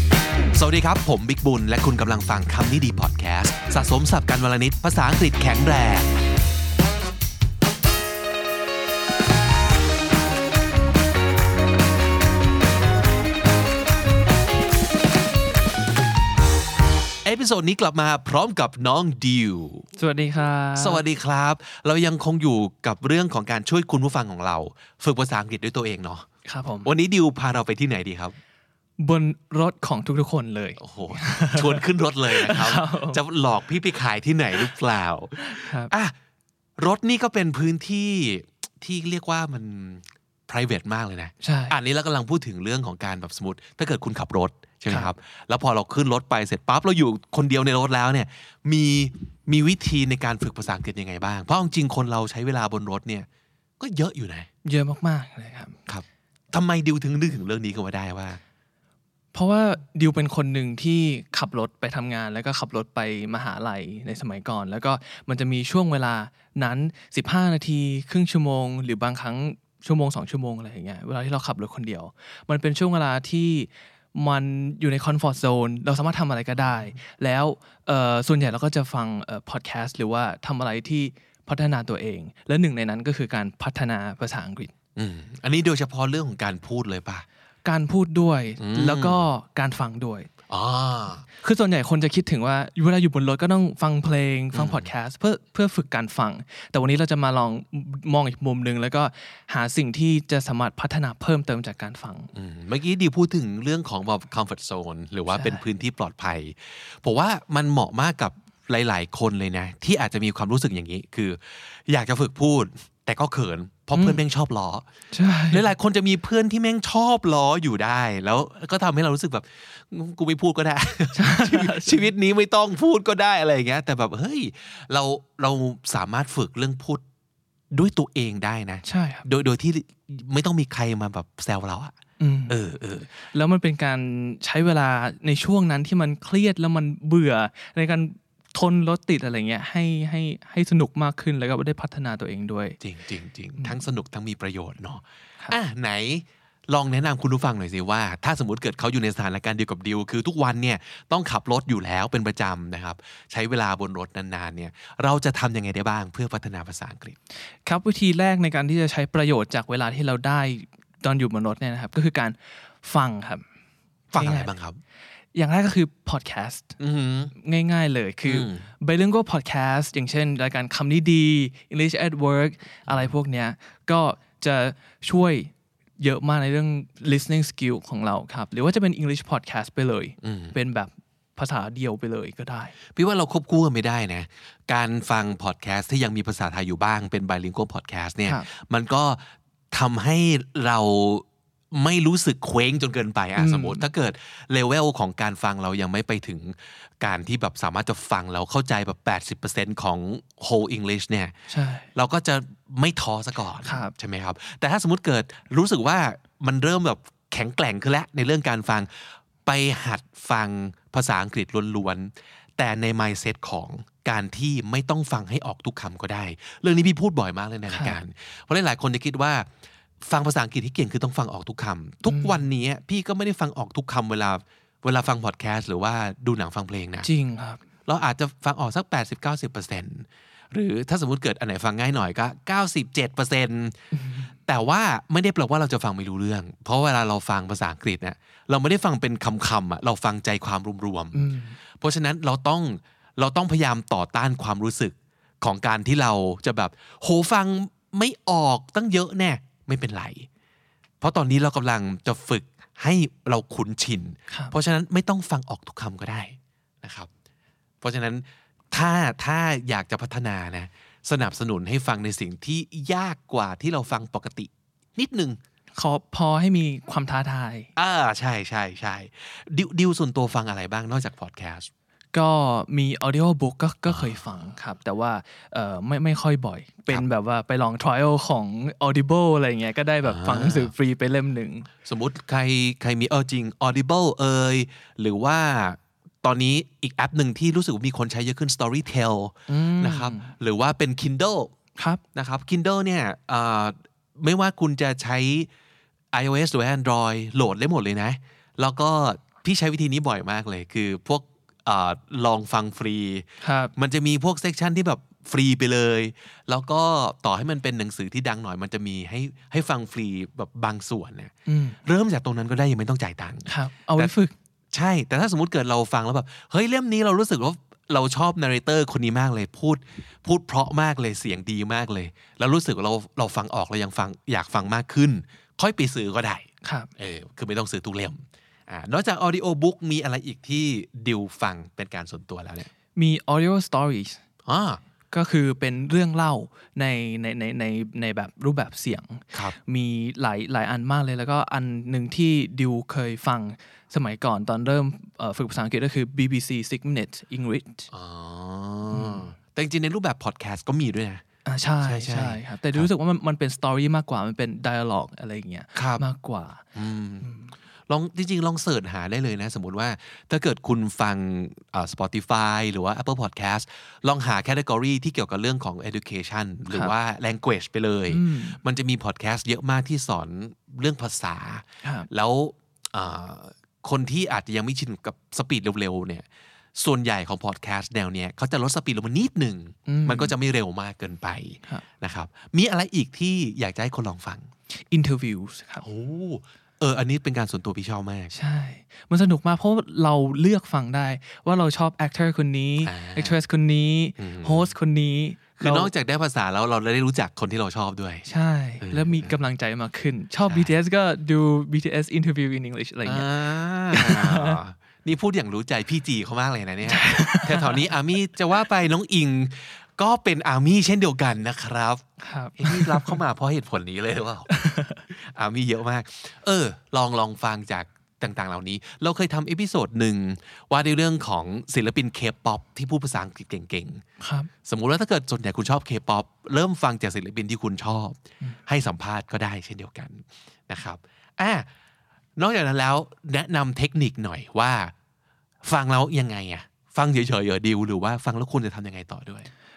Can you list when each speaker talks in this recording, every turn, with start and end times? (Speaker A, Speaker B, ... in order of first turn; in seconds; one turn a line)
Speaker A: 0.5-6.1
Speaker A: 17.2-19.9
Speaker B: 20.0-21.0
Speaker A: 20.8-26.2
Speaker B: 26.4-26.9
Speaker A: 26.8-28.3
Speaker B: 29.0-33.2
Speaker A: 30.8-36.1
Speaker B: 35.4-35.9
Speaker A: 36.8-53.3
Speaker B: 41.4-41.8
Speaker A: 53.8-54.5
Speaker B: 54.6-55.7
Speaker A: 55.9-58.4
Speaker B: 59.3-84.7
Speaker A: 85.0-87.2
Speaker B: 87.6-90.3
Speaker A: 88.6-89.3
Speaker A: 90.5-91.2
Speaker B: 91.4-102.3
Speaker A: 94.5-94.9
Speaker A: 102.3-114.8
Speaker B: 105.3-105.6
Speaker B: 113.9-114.2
Speaker B: 115.1-115.7
Speaker A: 115.5-127.0
Speaker B: 121.1-122.0
Speaker A: 127.7-131.9
Speaker B: 128.8-129.2
Speaker B: 132.2-132.6
Speaker A: 132.5-133.1
Speaker B: 133.2-142.8
Speaker A: 142.8-157.2
Speaker B: 157.6-163.4
Speaker B: 164.1-164.5
Speaker A: 164.1-164.8
Speaker B: 165.3-166.7
Speaker A: 166.8-167.3
Speaker B: 167.3-182.7
Speaker A: 168.2-168.7
Speaker A: 180.2-180.6
Speaker A: 182.9-201.3
Speaker B: 193.3-193.8
Speaker B: 201.5-201.9
Speaker A: 201.9-208.9
Speaker B: 203.6-203.9
Speaker A: 209.4-219.5
Speaker B: 217.7-218.0
Speaker A: 220.0-227.1
Speaker B: 222.1-222.4
Speaker B: 227.0-227.6
Speaker A: 227.8-233.8
Speaker B: 233.9-234.2
Speaker A: 234.4-241.3
Speaker B: 241.1-241.6
Speaker A: 241.8-250.3
Speaker A: 251.0-257.1
Speaker A: 257.8-265.4
Speaker B: 265.7-267.7
Speaker A: 267.8-271.7
Speaker B: 272.1-281.7
Speaker A: 273.9-274.2
Speaker A: 280.0-280.7
Speaker A: 281.8-291.5
Speaker B: 289.5-290.3
Speaker B: 291.8-292.0
Speaker A: 292.1-295.5
Speaker A: 296.1-311.3
Speaker B: 303.4-303.7
Speaker B: 311.4-311.8
Speaker A: 311.9-314.1
Speaker B: 313.4-314.3
Speaker A: 314.7-326.5
Speaker B: 326.6-326.9
Speaker A: 327.0-332.7
Speaker B: 332.9-334.2
Speaker A: 334.4-334.8
Speaker B: 335.1-347.9
Speaker A: 347.9-351.2
Speaker B: 348.9-349.2
Speaker B: 351.4-356.6
Speaker A: 351.8-352.9
Speaker A: 355.7-356.0
Speaker A: 356.7-357.3
Speaker B: 357.2-357.5
Speaker A: 357.9-376.2
Speaker B: 368.1-368.6
Speaker B: 371.8-372.1
Speaker A: 376.8-384.5
Speaker B: 379.9-380.3
Speaker B: 384.9-385.8
Speaker A: 385.8-388.3
Speaker B: 388.3-395.9
Speaker A: 392.8-393.4
Speaker A: 394.2-394.7
Speaker A: 395.6-398.3
Speaker B: 398.2-404.6
Speaker A: 398.8-399.3
Speaker A: 400.4-400.7
Speaker A: 403.0-412.1
Speaker B: 406.8-407.8
Speaker B: 412.2-413.2
Speaker A: 412.6-414.5
Speaker B: 414.5-415.0
Speaker A: 415.1-424.0
Speaker B: 424.2-424.5
Speaker A: 424.6-431.7
Speaker A: 432.4-434.9
Speaker A: 435.6-439.5